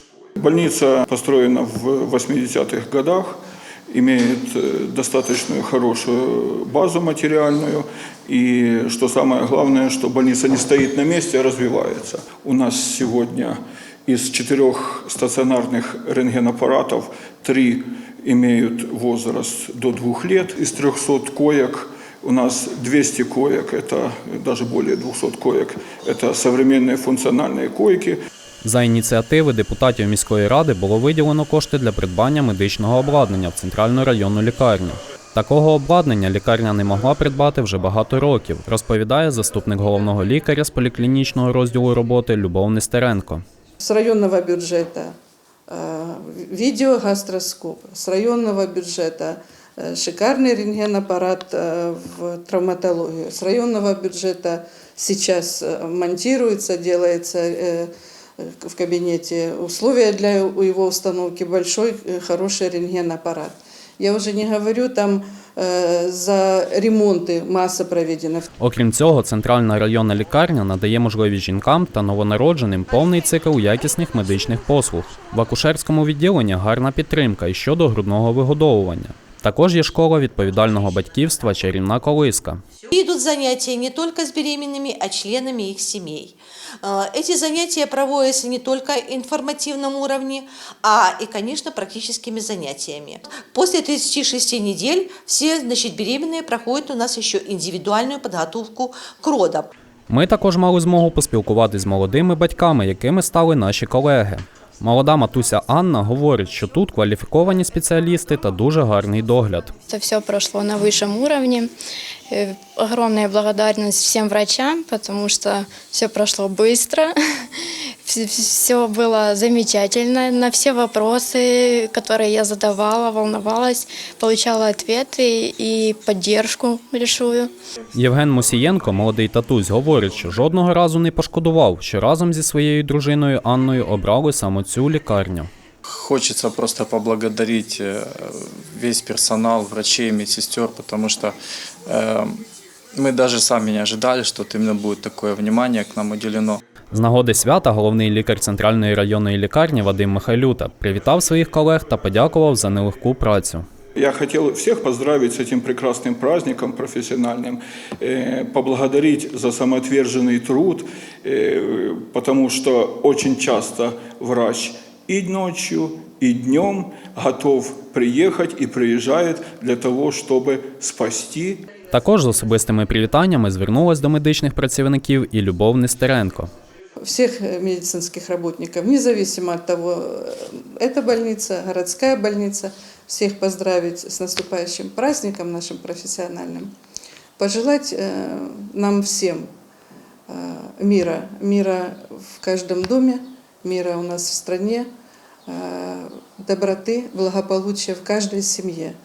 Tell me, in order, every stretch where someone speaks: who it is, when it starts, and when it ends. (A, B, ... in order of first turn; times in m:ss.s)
0:00.4-0:03.4 A
0:03.9-0:28.2 A
0:28.6-0:43.4 B
0:43.8-0:45.1 C
0:45.7-1:08.5 C
1:08.6-1:22.6 B
1:22.9-1:39.7 D
1:40.1-1:49.7 B
1:49.9-1:51.7 E
1:52.3-2:07.5 E
2:07.9-2:15.5 B
2:15.8-2:22.4 F
2:22.9-2:26.6 F
2:26.9-2:33.6 B
2:34.0-2:51.6 A
2:51.9-2:56.5 B
2:57.0-3:06.7 C
3:07.4-3:09.5 C
3:10.3-3:14.9 C
3:15.5-3:19.0 C